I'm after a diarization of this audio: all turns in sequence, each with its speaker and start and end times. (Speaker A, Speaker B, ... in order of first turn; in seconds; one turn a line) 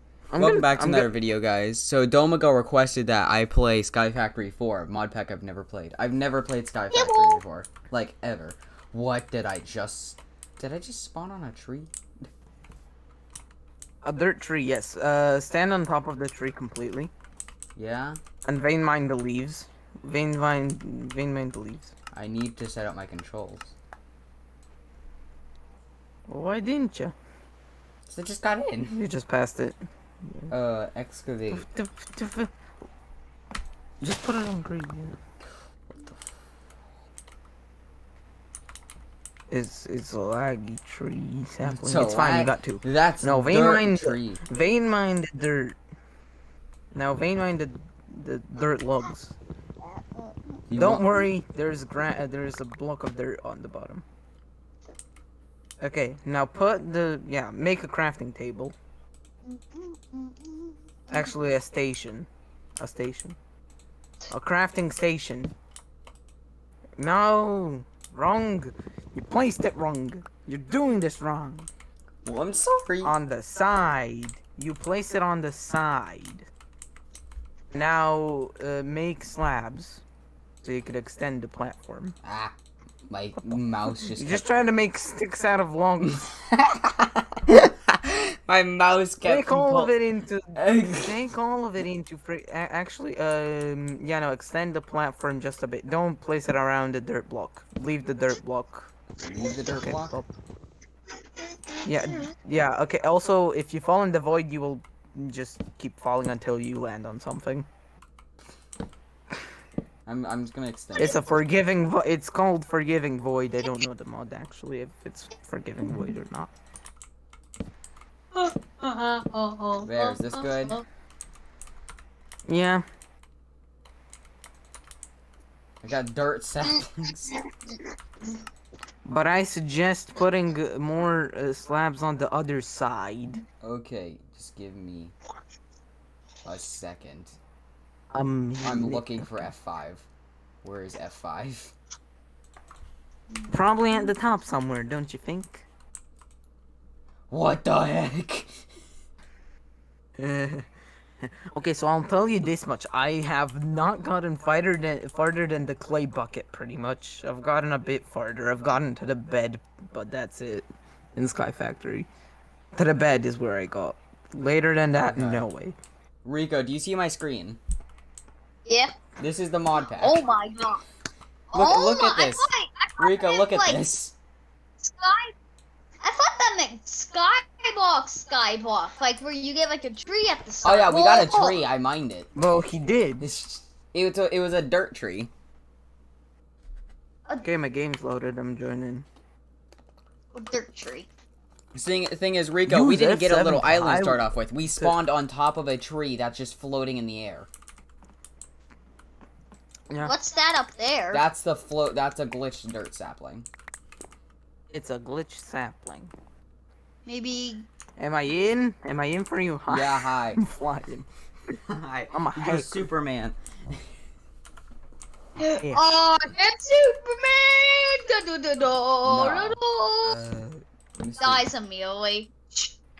Speaker A: 0.3-1.1
Speaker B: 0.3-11.9
Speaker C: 6.9-7.4
Speaker A: 14.0-17.1
Speaker B: 17.8-18.2
Speaker A: 18.4-21.9
Speaker B: 22.1-23.7
Speaker A: 26.3-27.1
Speaker B: 28.1-29.0
Speaker A: 28.8-30.5
Speaker B: 30.5-31.7
Speaker A: 31.5-32.5
Speaker A: 34.0-35.2
Speaker A: 39.5-45.8
Speaker B: 41.6-44.4
Speaker A: 46.9-49.4
Speaker C: 49.9-50.6
Speaker B: 50.7-51.0
Speaker A: 50.7-54.0
Speaker A: 55.8-58.7
Speaker C: 59.5-61.3
Speaker A: 61.1-63.4
Speaker A: 64.3-65.5
Speaker A: 67.0-71.7
Speaker B: 72.2-73.1
Speaker A: 73.0-76.5
Speaker A: 77.7-80.0
Speaker A: 80.6-82.2
Speaker B: 82.2-82.5
Speaker B: 83.1-84.5
Speaker A: 83.4-86.2
Speaker B: 86.1-89.9
Speaker A: 89.2-98.9
Speaker B: 90.5-91.1
Speaker B: 99.2-100.2
Speaker A: 99.7-100.3
Speaker A: 101.8-107.7
Speaker B: 110.0-111.2
Speaker A: 110.9-116.5
Speaker C: 118.3-120.8
Speaker B: 119.8-120.8
Speaker A: 122.5-122.8
Speaker B: 125.8-127.3
Speaker A: 129.1-133.4
Speaker B: 133.6-135.1
Speaker B: 136.4-137.4
Speaker A: 138.1-139.3
Speaker B: 138.6-140.1
Speaker B: 140.6-141.7
Speaker C: 143.3-144.1
Speaker A: 143.5-145.6
Speaker B: 147.3-148.7
Speaker A: 150.2-150.6
Speaker A: 151.5-162.1
Speaker A: 162.7-165.7
Speaker B: 164.9-165.4
Speaker B: 166.2-167.6
Speaker C: 168.7-168.9
Speaker B: 169.2-170.2
Speaker C: 170.0-170.8
Speaker C: 171.5-173.8
Speaker B: 171.5-174.1
Speaker C: 174.8-175.3
Speaker C: 176.0-181.6
Speaker B: 180.6-182.6
Speaker A: 182.3-183.3
Speaker B: 183.2-185.3
Speaker A: 187.4-189.1
Speaker C: 190.3-191.1
Speaker B: 191.7-197.5
Speaker A: 192.7-194.2
Speaker A: 199.9-200.1
Speaker C: 200.0-201.2
Speaker B: 201.1-203.4
Speaker A: 204.7-206.1
Speaker C: 207.1-207.7
Speaker A: 208.0-211.1
Speaker B: 209.7-210.4
Speaker B: 211.7-213.8
Speaker A: 212.1-212.9
Speaker C: 215.4-220.2
Speaker B: 219.0-219.6
Speaker A: 220.1-220.6
Speaker B: 221.0-221.5
Speaker C: 221.2-222.7